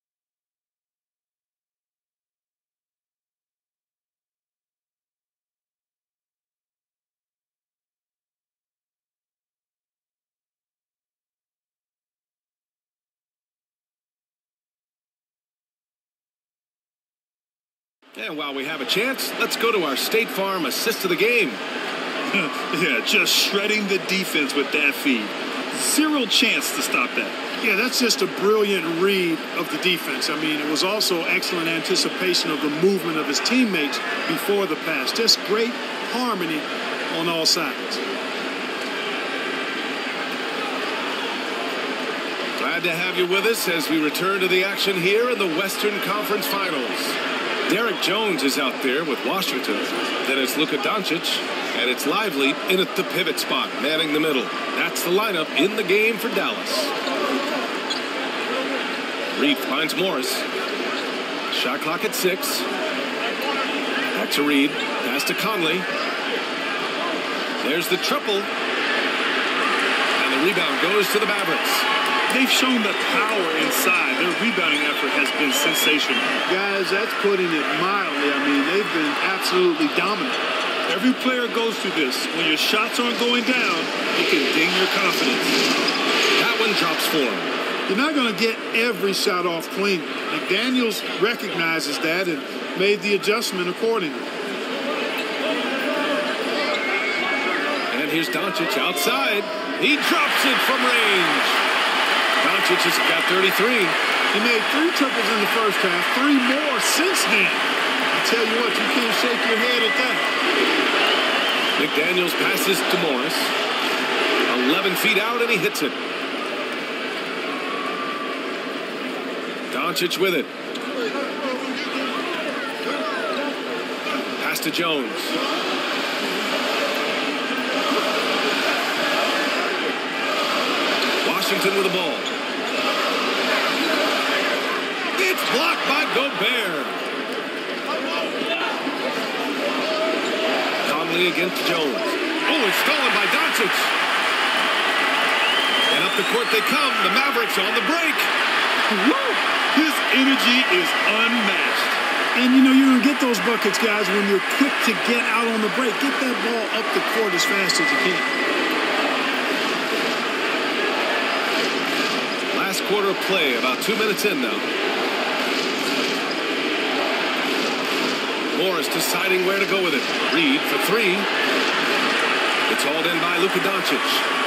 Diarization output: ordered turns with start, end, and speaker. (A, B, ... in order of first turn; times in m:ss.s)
0:18.2-0:21.6 A
0:22.3-0:27.4 B
0:27.6-0:38.0 C
0:42.6-0:56.9 A
0:59.3-1:00.5 A
1:01.5-1:02.7 A
1:04.1-1:05.9 A
1:07.6-1:08.5 A
1:10.2-1:11.9 A
1:12.3-1:16.3 B
1:16.5-1:20.4 C
1:20.9-1:25.6 B
1:26.4-1:27.5 A
1:27.9-1:34.3 C
1:37.9-1:41.6 A
1:42.4-1:44.0 A
1:44.3-1:50.2 C
1:51.8-1:53.5 A
1:54.5-1:56.0 A
1:59.7-2:00.5 A
2:04.4-2:05.4 A
2:11.2-2:12.3 A
2:15.1-2:17.0 A
2:20.8-2:23.9 A
2:25.9-2:28.3 A
2:28.9-2:32.0 B
2:32.3-2:38.3 C
2:42.5-2:44.7 A
2:48.5-2:51.3 A
2:52.7-2:54.2 A